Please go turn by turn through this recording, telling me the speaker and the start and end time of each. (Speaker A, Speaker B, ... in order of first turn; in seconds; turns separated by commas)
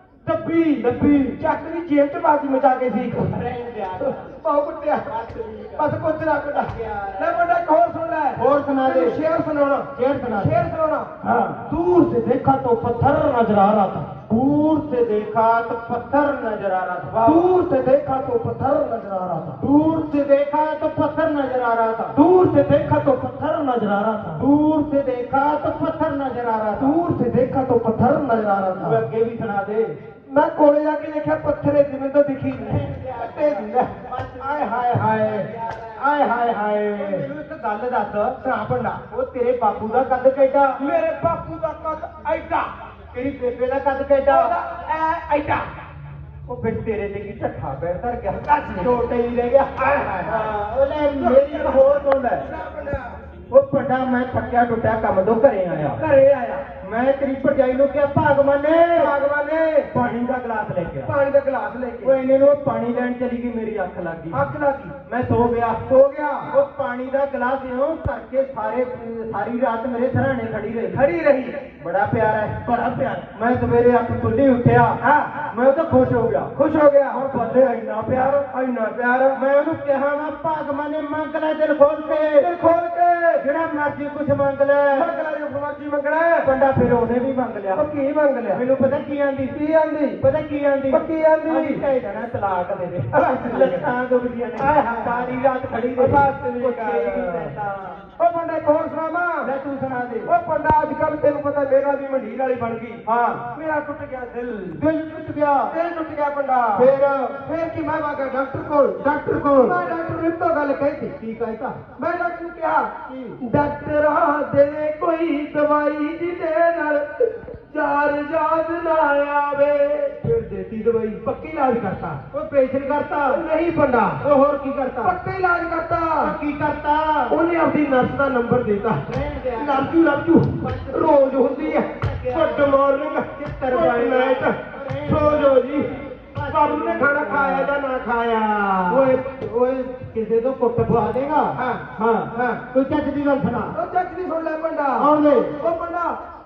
Speaker A: 0.2-3.4, Speaker B: 0.8-1.4, Speaker B: 3.2-4.2, Speaker A: 4.0-5.1, Speaker B: 5.0-5.9, Speaker A: 5.8-14.1, Speaker B: 6.6-7.4, Speaker B: 8.3-9.2, Speaker B: 9.9-10.6, Speaker B: 11.2-11.6, Speaker B: 14.1-17.5, Speaker A: 17.2-19.6, Speaker B: 19.6-22.2, Speaker A: 22.1-24.4, Speaker B: 24.4-27.0, Speaker A: 26.8-29.0, Speaker B: 28.8-30.0, Speaker A: 30.3-35.5, Speaker B: 32.6-38.4, Speaker A: 36.1-37.2, Speaker A: 38.4-39.0, Speaker B: 39.1-40.8, Speaker A: 40.8-42.7, Speaker B: 43.1-44.6, Speaker A: 44.3-45.7, Speaker B: 46.5-52.5, Speaker A: 48.3-49.0, Speaker A: 49.8-50.5, Speaker A: 51.1-53.2, Speaker B: 53.5-56.0, Speaker A: 55.9-56.6, Speaker B: 56.8-59.1, Speaker A: 58.9-59.9, Speaker B: 59.9-61.1, Speaker A: 61.0-62.1, Speaker B: 62.0-64.4, Speaker A: 64.3-64.9, Speaker B: 65.0-65.8, Speaker A: 65.8-66.5, Speaker B: 66.5-71.1, Speaker A: 70.8-71.6, Speaker B: 71.8-72.6, Speaker A: 72.6-73.3, Speaker B: 73.3-76.5, Speaker A: 75.0-75.5, Speaker A: 76.5-79.4, Speaker B: 77.1-78.4, Speaker B: 79.3-82.5, Speaker A: 82.2-83.4, Speaker B: 83.4-85.1, Speaker A: 84.9-86.5, Speaker B: 86.4-87.9, Speaker A: 87.7-88.6, Speaker B: 88.5-89.6, Speaker A: 89.5-90.2, Speaker B: 90.2-98.0, Speaker A: 90.9-91.8, Speaker A: 93.1-93.9, Speaker A: 94.6-95.4, Speaker A: 96.0-99.5, Speaker B: 99.4-100.3, Speaker A: 100.2-104.8, Speaker B: 103.0-103.4, Speaker B: 104.8-105.7, Speaker A: 105.7-111.1, Speaker B: 109.0-109.8, Speaker B: 111.2-111.8, Speaker A: 112.0-120.2, Speaker B: 113.1-113.4, Speaker B: 120.2-121.2, Speaker A: 121.2-122.2, Speaker B: 122.3-123.4, Speaker A: 123.3-124.2, Speaker B: 124.2-125.2, Speaker A: 125.0-126.4, Speaker B: 126.2-127.3, Speaker A: 127.3-135.9, Speaker B: 129.1-132.8, Speaker B: 133.3-137.7, Speaker A: 136.5-139.1, Speaker B: 138.9-141.6, Speaker A: 141.5-142.6, Speaker B: 142.3-143.8, Speaker A: 143.7-146.2, Speaker B: 145.0-145.6